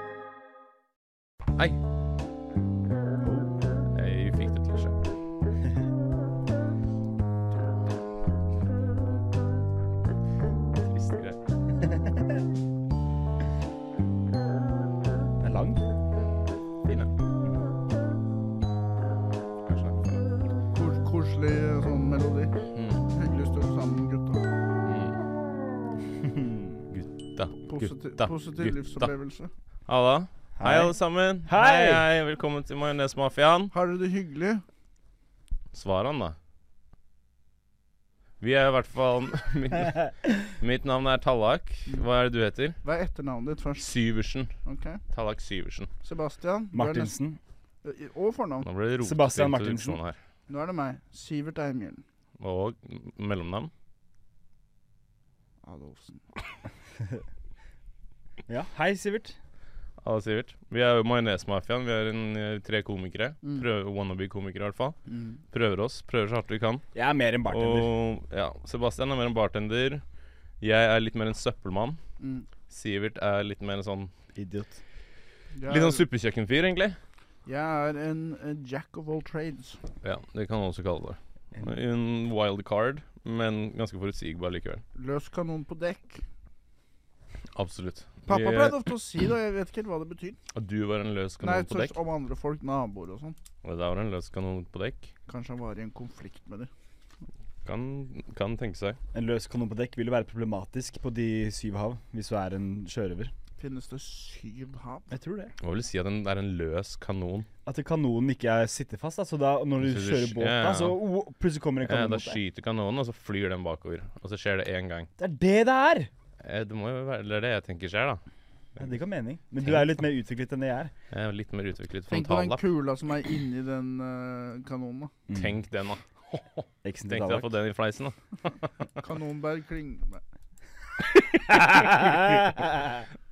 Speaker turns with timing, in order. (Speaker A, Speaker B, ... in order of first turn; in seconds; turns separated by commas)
Speaker A: 3.2-3.5, Speaker B: 3.9-5.0, Speaker B: 10.9-11.4, Speaker A: 15.4-15.8, Speaker B: 16.8-17.1, Speaker B: 19.6-20.2, Speaker C: 20.7-22.5, Speaker B: 22.7-23.0, Speaker C: 23.1-24.4, Speaker B: 24.8-25.2, Speaker A: 26.3-26.7, Speaker B: 26.9-29.1, Speaker C: 27.7-29.5, Speaker B: 29.9-33.7, Speaker A: 30.6-32.1, Speaker C: 33.7-34.6, Speaker B: 35.7-36.4, Speaker B: 38.4-42.8, Speaker C: 42.8-43.9, Speaker B: 43.8-44.5, Speaker C: 44.6-45.0, Speaker B: 45.1-45.9, Speaker C: 46.0-47.1, Speaker A: 46.7-47.4, Speaker C: 47.8-48.7, Speaker B: 48.6-50.2, Speaker A: 49.0-50.0, Speaker C: 50.5-52.0, Speaker B: 52.4-53.7, Speaker C: 55.6-56.2, Speaker A: 58.5-59.4, Speaker B: 60.0-65.0, Speaker C: 65.1-65.4, Speaker B: 65.5-66.8, Speaker A: 66.9-67.9, Speaker B: 67.5-70.0, Speaker B: 70.6-72.0, Speaker C: 72.2-72.5, Speaker B: 72.7-74.1, Speaker A: 74.3-74.8, Speaker C: 75.5-76.0, Speaker B: 75.7-77.0, Speaker C: 77.5-79.8, Speaker B: 80.0-84.8, Speaker C: 84.9-86.2, Speaker B: 87.5-88.9, Speaker C: 88.3-90.4, Speaker B: 90.5-91.9, Speaker C: 91.4-93.3, Speaker B: 93.6-95.1, Speaker C: 95.3-96.7, Speaker B: 97.6-99.0, Speaker A: 99.1-103.3, Speaker C: 103.6-105.1, Speaker A: 105.1-105.5, Speaker B: 105.6-107.5, Speaker A: 107.7-112.4, Speaker B: 109.8-111.0, Speaker B: 111.8-115.1, Speaker A: 115.2-116.1, Speaker B: 116.4-118.2, Speaker A: 118.8-120.9, Speaker B: 121.1-122.6, Speaker C: 122.1-125.1, Speaker A: 125.3-125.6, Speaker B: 125.3-128.9, Speaker A: 126.8-127.5, Speaker C: 129.0-130.2, Speaker A: 131.5-133.1